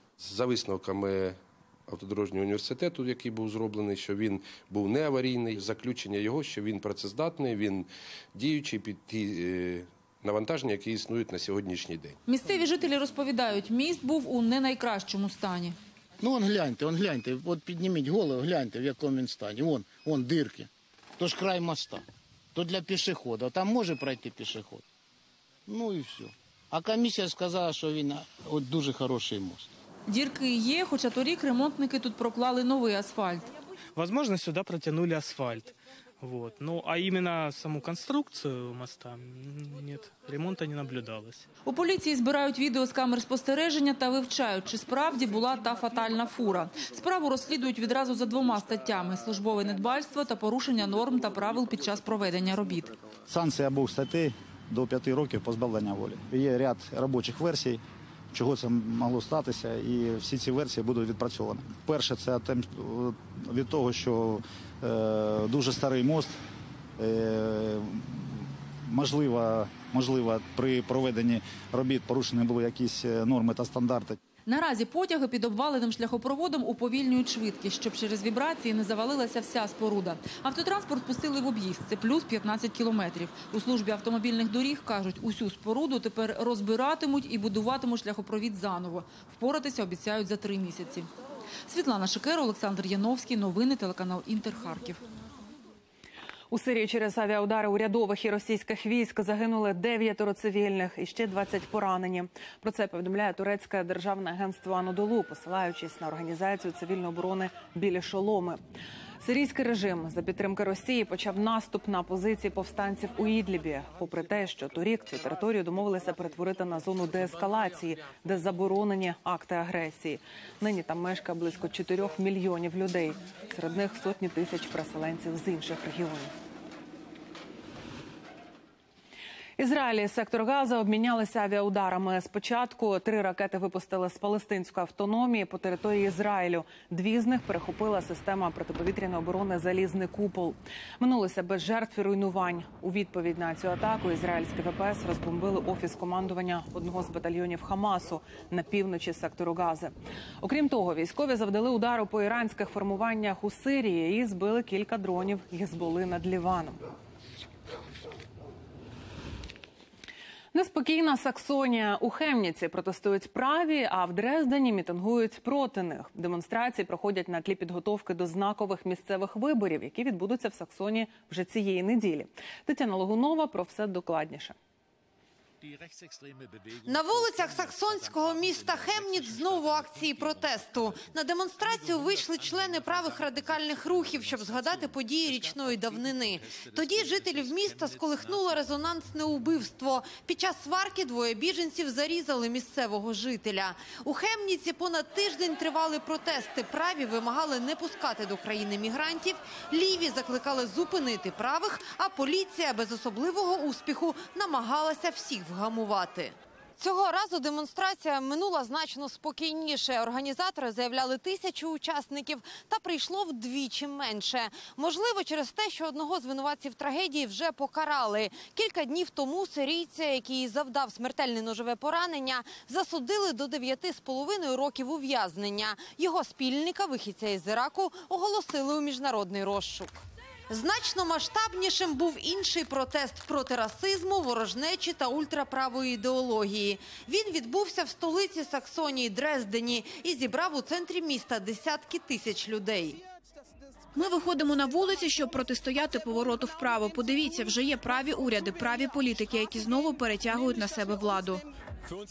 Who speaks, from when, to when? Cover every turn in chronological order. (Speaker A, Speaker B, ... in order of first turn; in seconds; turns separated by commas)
Speaker A: 0.2-12.2, Speaker B: 12.2-15.8, Speaker C: 16.2-22.0, Speaker C: 22.5-24.8, Speaker C: 25.7-29.7, Speaker B: 30.1-33.5, Speaker D: 33.9-41.5, Speaker B: 41.6-52.9, Speaker E: 53.3-66.4, Speaker E: 67.0-74.2, Speaker B: 74.4-91.1, Speaker B: 91.7-95.0, Speaker F: 96.5-108.6, Speaker F: 109.2-126.3, Speaker F: 129.6-156.8, Speaker F: 160.5-174.6, Speaker G: 176.8-243.0, Speaker H: 243.9-251.4